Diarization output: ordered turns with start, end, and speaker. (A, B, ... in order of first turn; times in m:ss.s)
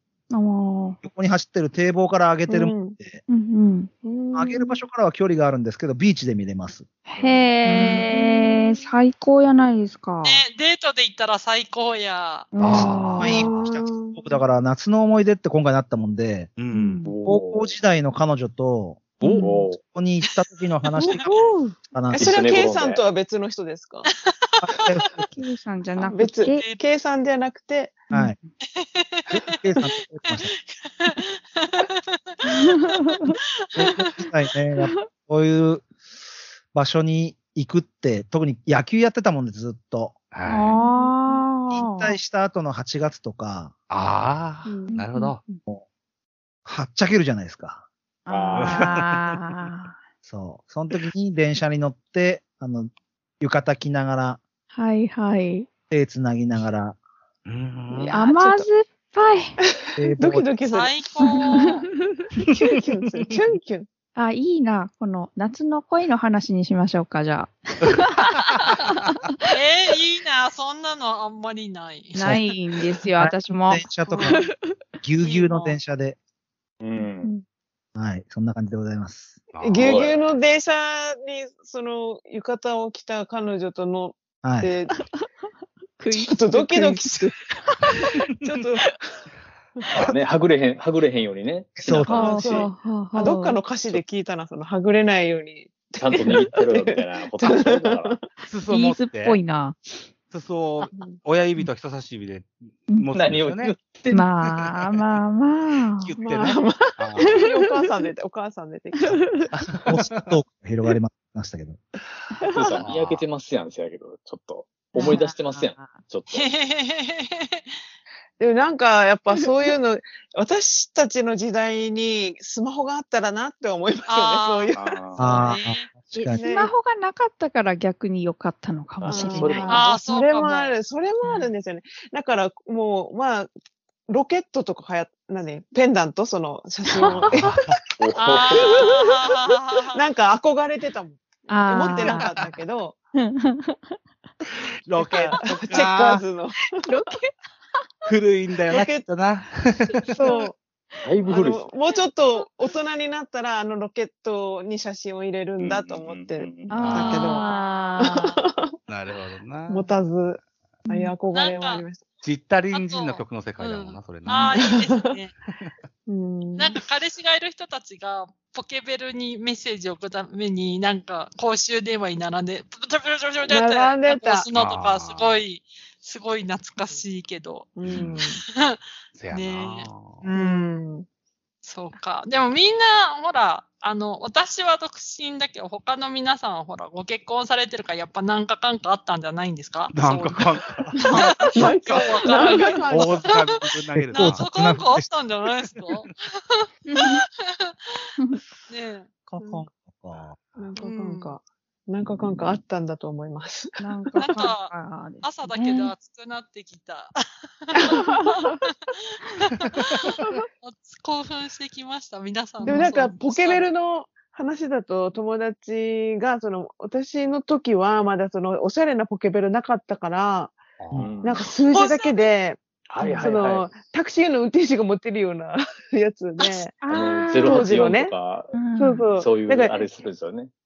0:00.3-0:01.0 A
0:01.0-0:03.2 B
0:02.5-0:03.0 C
0:03.3-0:03.9 A
0:04.0-0:04.7 C
0:04.3-0:06.8 B
0:07.1-0:10.4 A
0:07.2-0:08.6 C
0:10.2-0:12.5 D
0:12.5-0:13.5 A
0:12.6-0:13.3 E
0:13.1-0:14.3 C
0:13.2-0:16.5 B
0:16.6-0:17.0 E
0:16.7-0:17.1 A
0:17.0-0:17.8 F
0:17.2-0:19.2 B
0:19.2-0:19.5 A
0:19.4-0:19.8 F
0:19.8-0:21.3 B
0:21.0-0:21.4 C
0:21.0-0:21.7 A
0:21.9-0:22.3 B
0:22.1-0:24.1 C
0:22.2-0:23.0 F
0:24.1-0:25.0 D
0:24.6-0:25.1 B
0:25.2-0:26.6 A
0:26.0-0:28.0 C
0:26.5-0:26.8 D
0:28.1-0:28.4 A
0:28.8-0:32.2 D
0:29.3-0:30.5 B
0:32.5-0:33.4 A
0:33.8-0:34.1 D
0:33.8-0:35.9 B
0:34.8-0:35.1 A
0:36.7-0:40.1 B
0:40.3-0:40.8 E
0:40.5-0:42.2 A
0:40.8-0:41.4 C
0:41.7-0:43.7 B
0:43.9-0:45.4 E
0:44.8-0:45.6 A
0:46.6-0:47.8 B
0:48.2-0:50.0 A
0:48.3-0:48.9 F
0:48.5-0:49.3 E
0:50.2-0:54.4 B
0:54.7-0:55.7 A
0:55.9-0:57.0 B
0:57.4-0:58.1 E
0:57.9-0:58.7 C
0:58.1-0:59.5 A
0:59.9-1:01.7 C
1:00.0-1:00.4 B
1:00.6-1:01.8 D
1:01.2-1:01.7 A
1:02.5-1:03.9 C
1:04.2-1:08.8 A
1:09.5-1:12.3 D
1:12.1-1:14.6 A
1:13.2-1:14.5 B
1:15.0-1:16.2 B
1:15.2-1:15.6 D
1:16.8-1:17.3 F
1:17.9-1:19.4 B
1:19.5-1:20.0 E
1:19.6-1:25.0 C
1:19.8-1:20.2 F
1:24.4-1:24.7 B
1:25.0-1:25.2 A
1:26.0-1:28.2 A
1:26.1-1:27.3 C
1:28.4-1:28.9 C
1:29.9-1:32.0 F
1:31.8-1:32.6 B
1:31.9-1:38.2 C
1:32.0-1:33.6 A
1:36.0-1:38.2 F
1:38.4-1:39.4 E
1:38.7-1:39.8 A
1:40.3-1:43.8 E
1:43.1-1:44.3 F
1:44.1-1:46.2 A
1:44.5-1:45.0 E
1:46.0-1:47.5 E
1:46.2-1:49.4 C
1:47.3-1:47.6 A
1:49.0-1:49.4 A
1:49.7-1:51.8 B
1:49.8-1:50.2 E
1:52.5-1:56.5 F
1:52.8-1:53.2 E
1:55.0-1:55.2 C
1:55.0-1:55.9 A
1:56.3-1:57.6 D
1:58.4-2:05.4 C
2:04.1-2:05.9 D
2:04.7-2:05.5 F
2:05.2-2:06.4 B
2:06.1-2:09.8 A
2:06.3-2:06.7 C
2:09.0-2:10.0 F
2:09.1-2:13.5 C
2:09.6-2:10.8 D
2:14.1-2:17.8 C
2:17.0-2:18.8 F
2:18.2-2:20.0 D
2:18.5-2:19.0 C
2:19.9-2:23.0 C
2:21.5-2:22.3 A
2:23.2-2:24.0 A
2:24.8-2:26.2 E
2:25.0-2:26.8 C
2:26.8-2:27.3 A
2:28.0-2:30.1 E
2:28.7-2:29.0 C
2:29.8-2:30.5 A
2:30.1-2:30.6 C
2:31.0-2:31.7 F
2:31.2-2:37.4 C
2:35.6-2:36.8 F
2:36.7-2:38.4 A
2:36.8-2:37.4 E
2:38.0-2:38.7 C
2:38.9-2:39.9 E
2:39.7-2:42.0 C
2:40.8-2:41.1 A
2:41.3-2:41.8 D
2:42.2-2:44.7 E
2:42.7-2:45.3 D
2:44.6-2:45.0 C
2:46.1-2:46.8 C
2:46.6-2:57.7 D
2:53.4-2:54.4 C
2:54.5-2:55.4 E
2:57.8-2:58.4 C
2:57.8-2:58.2 F
2:58.4-2:58.8 D
2:59.1-3:00.2 E
2:59.3-3:00.6 D
3:00.3-3:01.0 C
3:01.6-3:10.4 D
3:09.9-3:11.1 E
3:11.0-3:13.6 D
3:11.1-3:11.5 A
3:11.5-3:13.3 C
3:12.3-3:12.8 A
3:12.9-3:14.4 E
3:13.9-3:15.0 B
3:14.1-3:16.6 D
3:16.8-3:17.2 A
3:18.7-3:19.1 D
3:19.3-3:20.4 B
3:20.6-3:23.7 C
3:20.8-3:21.3 D
3:23.8-3:25.9 A
3:24.2-3:28.0 D
3:27.8-3:28.4 C
3:29.4-3:33.6 D
3:32.6-3:32.9 A
3:32.6-3:40.6 C
3:40.8-3:41.1 E
3:41.0-3:41.5 F
3:41.2-3:49.9 C
3:41.7-3:42.2 D
3:42.9-3:43.7 F
3:46.4-3:47.7 A
3:46.9-3:50.5 F
3:48.5-3:49.0 A